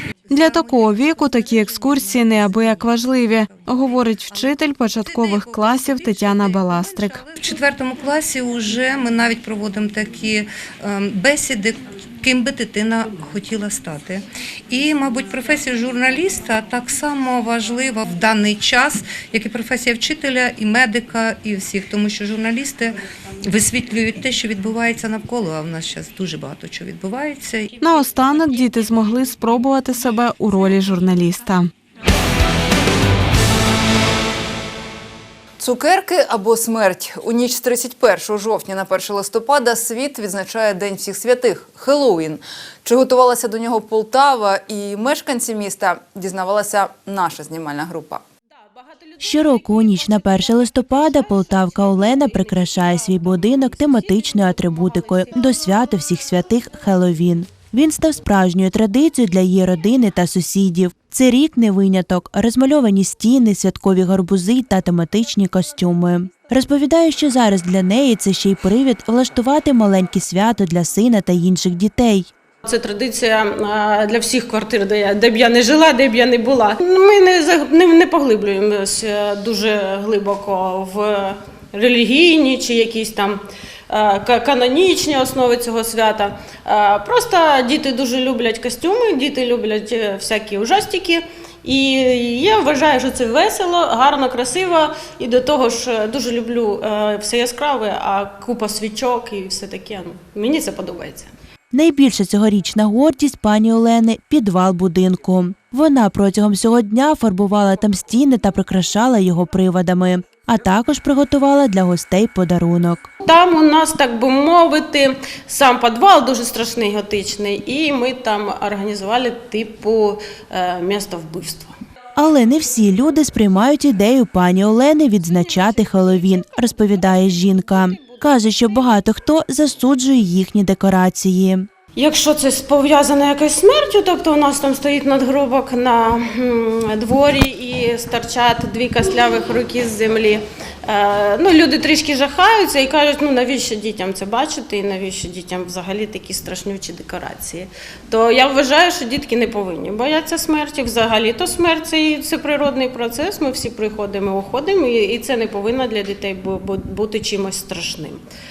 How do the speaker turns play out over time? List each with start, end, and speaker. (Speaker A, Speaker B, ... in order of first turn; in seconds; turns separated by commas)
Speaker A: 0.3-7.3, Speaker B: 7.5-22.9, Speaker B: 23.5-27.7, Speaker A: 27.8-31.7, Speaker C: 35.6-48.2, Speaker D: 49.2-72.3, Speaker E: 72.6-101.3, Speaker D: 101.7-113.0, Speaker E: 113.2-121.7, Speaker D: 122.2-131.7, Speaker E: 126.9-127.4, Speaker E: 128.0-128.5, Speaker E: 131.9-158.2